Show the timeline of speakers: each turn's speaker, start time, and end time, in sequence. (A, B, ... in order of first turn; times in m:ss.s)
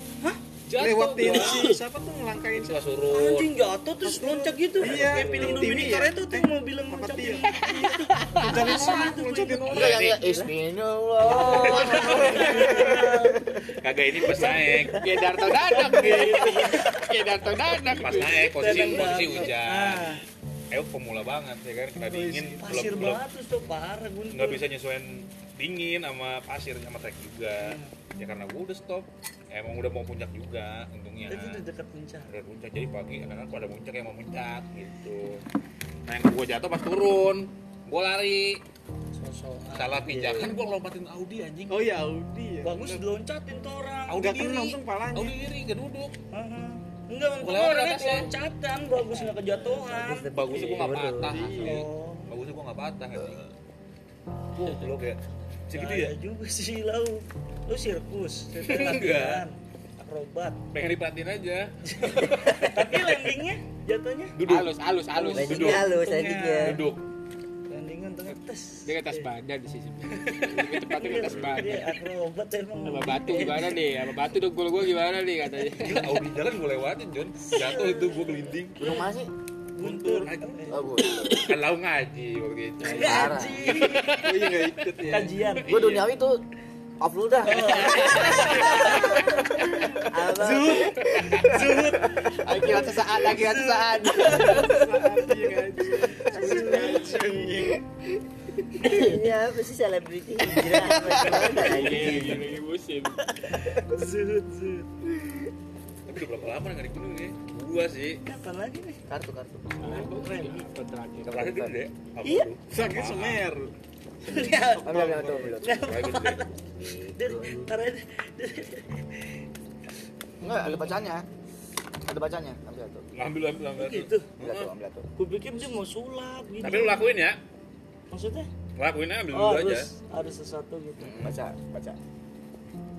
0:00.7-0:01.6 A
0:00.7-0:02.8 B
0:01.3-0:01.7 C
0:02.6-0:03.5 A
0:03.1-0:09.8 D
0:04.0-0:07.5 B
0:07.6-0:08.7 C
0:08.4-0:10.1 B
0:09.7-0:13.3 E
0:09.8-0:10.5 A
0:11.2-0:13.4 D
0:11.7-0:12.2 A
0:12.2-0:12.9 B
0:13.8-0:15.0 A
0:14.2-0:17.2 D
0:14.9-0:19.2 C
0:18.0-0:20.2 A
0:18.2-0:20.2 D
0:20.7-0:23.2 A
0:22.0-0:23.1 B
0:22.6-0:24.6 D
0:24.3-0:31.6 A
0:27.6-0:27.9 D
0:31.3-0:32.3 D
0:32.3-0:35.4 A
0:36.1-0:38.6 A
0:39.1-0:40.5 D
0:39.7-0:41.9 A
0:40.1-0:40.5 F
0:41.7-0:43.0 B
0:42.6-0:44.2 D
0:44.1-0:46.1 A
0:44.2-0:45.4 B
0:46.3-0:50.3 D
0:47.4-0:48.3 A
0:49.6-0:51.5 F
0:50.3-0:53.5 A
0:51.2-0:51.8 B
0:51.5-0:52.3 D
0:54.5-0:56.1 A
0:55.7-1:00.6 D
0:58.6-0:59.4 A
1:00.7-1:03.3 A
1:01.9-1:04.4 D
1:04.3-1:05.9 A
1:04.4-1:05.7 C
1:05.2-1:06.9 D
1:05.3-1:06.8 F
1:06.6-1:07.0 A
1:07.7-1:09.3 D
1:08.8-1:11.9 C
1:10.6-1:13.8 D
1:12.8-1:16.1 C
1:15.8-1:18.9 A
1:16.1-1:16.4 D
1:17.4-1:19.0 D
1:18.8-1:19.3 E
1:19.7-1:20.8 D
1:19.8-1:20.7 A
1:20.7-1:21.4 E
1:21.3-1:24.6 A
1:22.8-1:24.2 D
1:22.9-1:23.8 E
1:24.2-1:25.4 B
1:25.0-1:25.8 D
1:25.6-1:26.1 A
1:25.7-1:26.4 E
1:27.0-1:29.2 E
1:27.4-1:35.0 D
1:28.0-1:28.3 A
1:30.1-1:30.9 F
1:30.2-1:30.5 E
1:31.0-1:31.5 A
1:32.4-1:34.2 E
1:34.2-1:37.8 B
1:36.0-1:37.5 D
1:38.8-1:42.5 F
1:41.3-1:43.2 C
1:41.9-1:42.2 A
1:43.4-1:44.9 D
1:46.0-1:48.2 A
1:48.2-1:49.0 D
1:49.1-1:50.1 E
1:49.8-1:51.5 C
1:49.8-1:50.6 D
1:51.2-1:51.8 E
1:51.3-1:53.4 A
1:52.2-1:52.5 D
1:52.6-1:53.7 B
1:54.2-1:55.0 D
1:54.6-1:55.8 E
1:54.8-1:55.6 B
1:55.6-1:56.5 D
1:55.7-1:56.4 A
1:56.7-1:57.7 F
1:57.1-1:59.0 D
2:00.4-2:01.2 E
2:02.0-2:03.1 E
2:03.1-2:04.7 A
2:03.7-2:04.4 D
2:04.4-2:05.1 E
2:05.2-2:07.1 D
2:06.6-2:07.4 A
2:08.1-2:08.5 D
2:08.8-2:09.9 A
2:09.3-2:11.2 D
2:11.0-2:12.0 E
2:11.0-2:11.3 A